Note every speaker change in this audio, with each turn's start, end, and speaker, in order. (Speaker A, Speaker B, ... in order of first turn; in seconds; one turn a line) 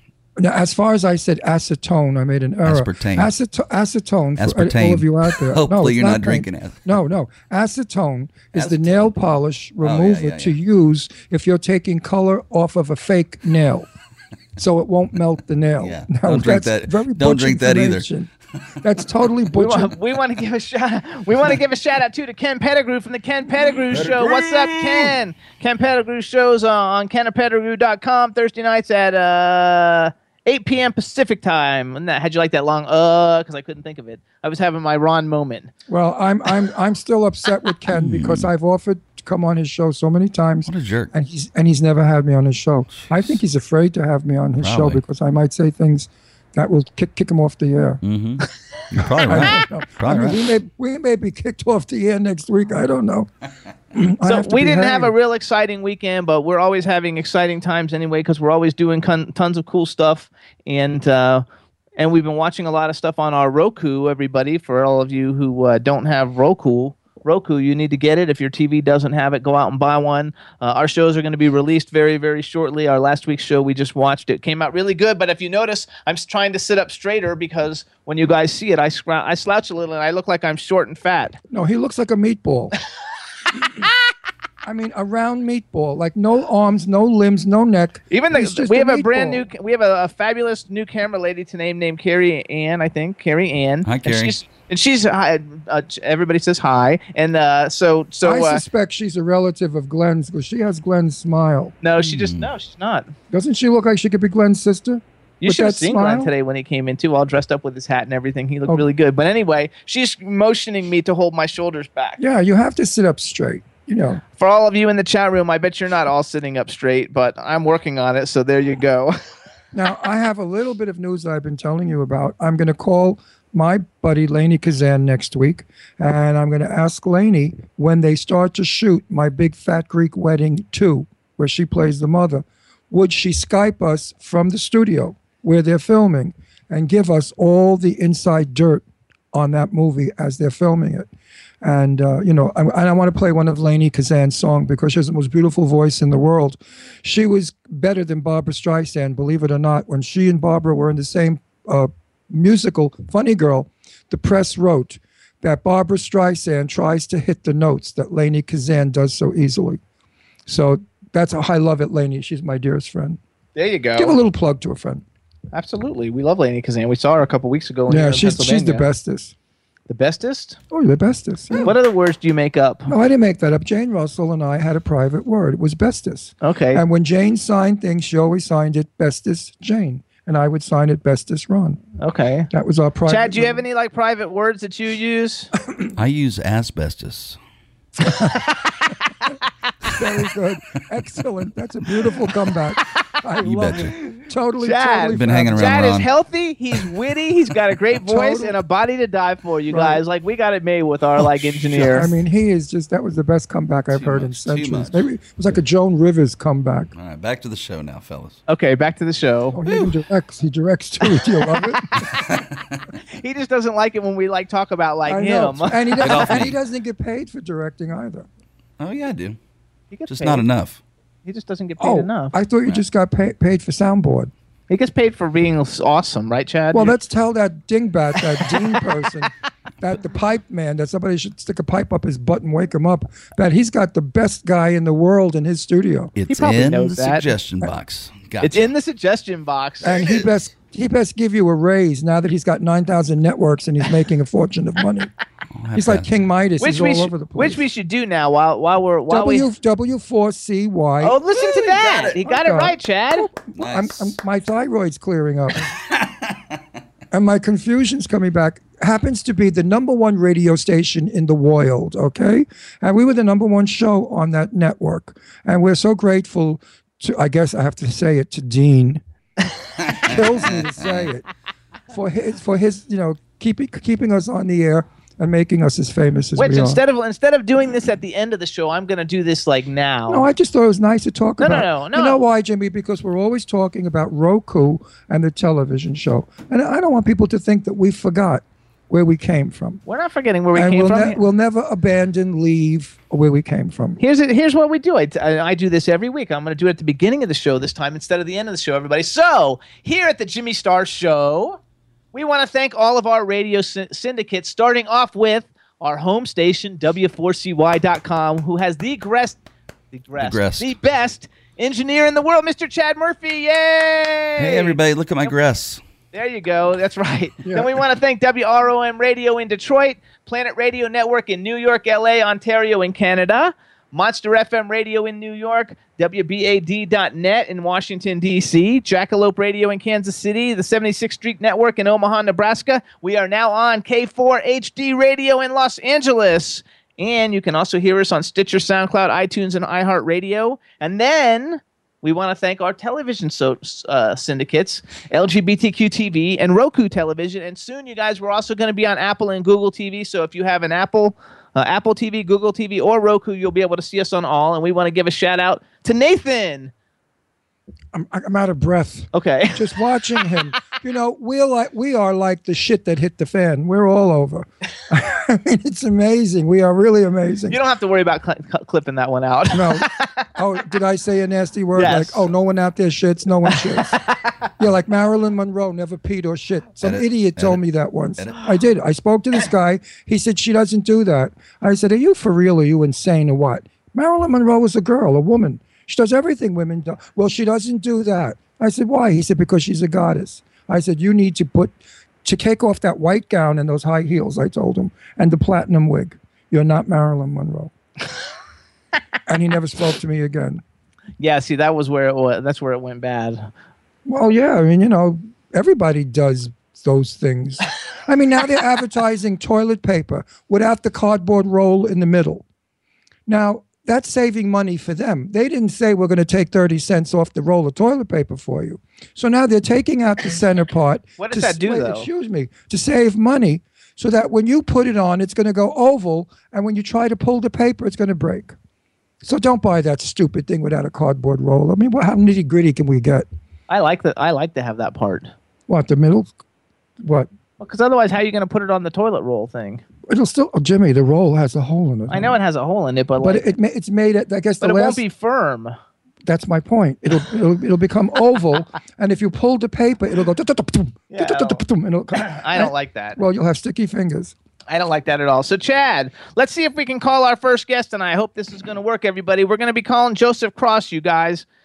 Speaker A: 0.4-13.9
Speaker B: 2.6-3.3
Speaker B: 4.4-7.0
Speaker B: 8.5-9.1
Speaker B: 9.8-10.6
Speaker A: 14.6-18.3
Speaker B: 15.8-18.1
Speaker A: 18.8-19.9
Speaker C: 19.6-35.7
Speaker B: 23.9-25.1
Speaker A: 35.9-48.0
Speaker B: 37.9-38.5
Speaker B: 40.6-41.1
Speaker B: 43.0-43.4
Speaker B: 44.6-45.0
Speaker B: 48.0-50.4
Speaker A: 49.2-53.3
Speaker A: 53.9-55.1
Speaker C: 54.2-61.4
Speaker C: 62.0-81.4
Speaker A: 81.5-82.7
Speaker A: 84.6-89.5
Speaker C: 88.1-98.6
Speaker B: 93.8-94.3
Speaker A: 98.2-101.8
Speaker C: 101.8-103.1
Speaker B: 102.0-102.5
Speaker A: 103.3-106.3
Speaker C: 105.4-112.2
Speaker A: 112.2-114.2
Speaker C: 114.3-119.2
Speaker A: 119.7-141.1
Speaker A: 141.6-159.8
Speaker A: 160.5-163.2
Speaker C: 163.6-164.2
Speaker A: 164.0-165.0
Speaker C: 165.5-168.8
Speaker A: 167.9-169.3
Speaker C: 169.9-170.6
Speaker A: 170.7-171.7
Speaker C: 171.6-172.9
Speaker A: 172.9-181.8
Speaker C: 176.4-176.8
Speaker C: 182.0-182.5
Speaker A: 182.5-183.6
Speaker C: 183.1-185.5
Speaker B: 185.9-187.4
Speaker A: 189.9-195.9
Speaker B: 193.4-193.9
Speaker C: 194.6-202.1
Speaker B: 195.1-196.1
Speaker A: 198.0-198.6
Speaker A: 199.7-200.0
Speaker A: 201.6-206.9
Speaker B: 203.9-205.0
Speaker B: 206.9-208.4
Speaker C: 208.5-209.6
Speaker A: 209.5-212.1
Speaker C: 211.2-212.1
Speaker B: 212.2-212.8
Speaker C: 213.2-216.4
Speaker A: 215.0-218.3
Speaker B: 216.0-216.6
Speaker B: 218.8-219.4
Speaker C: 219.9-220.4
Speaker B: 220.1-220.8
Speaker C: 221.2-222.3
Speaker A: 221.8-224.3
Speaker C: 224.7-226.9
Speaker A: 226.7-236.1
Speaker B: 236.2-238.7
Speaker C: 236.3-237.3
Speaker C: 238.4-240.2
Speaker A: 239.8-245.1
Speaker B: 245.5-246.1
Speaker A: 245.7-247.6
Speaker C: 246.6-249.5
Speaker A: 249.1-255.7
Speaker C: 251.0-253.3
Speaker B: 251.5-252.0
Speaker B: 253.5-254.1
Speaker B: 255.9-256.4
Speaker A: 257.1-269.0
Speaker B: 269.9-271.1
Speaker A: 270.0-271.3
Speaker A: 271.9-276.8
Speaker C: 276.4-280.2
Speaker A: 280.1-289.8
Speaker C: 281.4-282.2
Speaker C: 289.9-291.2
Speaker A: 290.5-294.0
Speaker C: 294.0-301.6
Speaker C: 302.1-309.4
Speaker C: 309.9-314.8
Speaker B: 310.2-310.7
Speaker B: 314.4-315.8
Speaker C: 316.1-356.7
Speaker A: 357.9-367.6
Speaker C: 359.1-359.7
Speaker C: 367.5-370.3
Speaker A: 369.5-374.0
Speaker C: 371.7-372.2
Speaker C: 373.5-374.3
Speaker A: 374.6-397.7
Speaker B: 376.8-377.6
Speaker A: 399.3-400.6
Speaker C: 401.2-403.5
Speaker A: 404.1-412.4
Speaker A: 413.3-428.5
Speaker C: 421.2-422.1
Speaker A: 429.2-433.2
Speaker C: 433.7-435.3
Speaker A: 435.7-436.4
Speaker A: 437.0-437.3
Speaker C: 437.6-439.8
Speaker A: 440.1-442.4
Speaker C: 442.1-443.4
Speaker A: 443.2-445.0
Speaker C: 444.6-445.7
Speaker A: 446.2-454.3
Speaker C: 451.1-451.6
Speaker C: 452.2-453.2
Speaker C: 454.7-461.4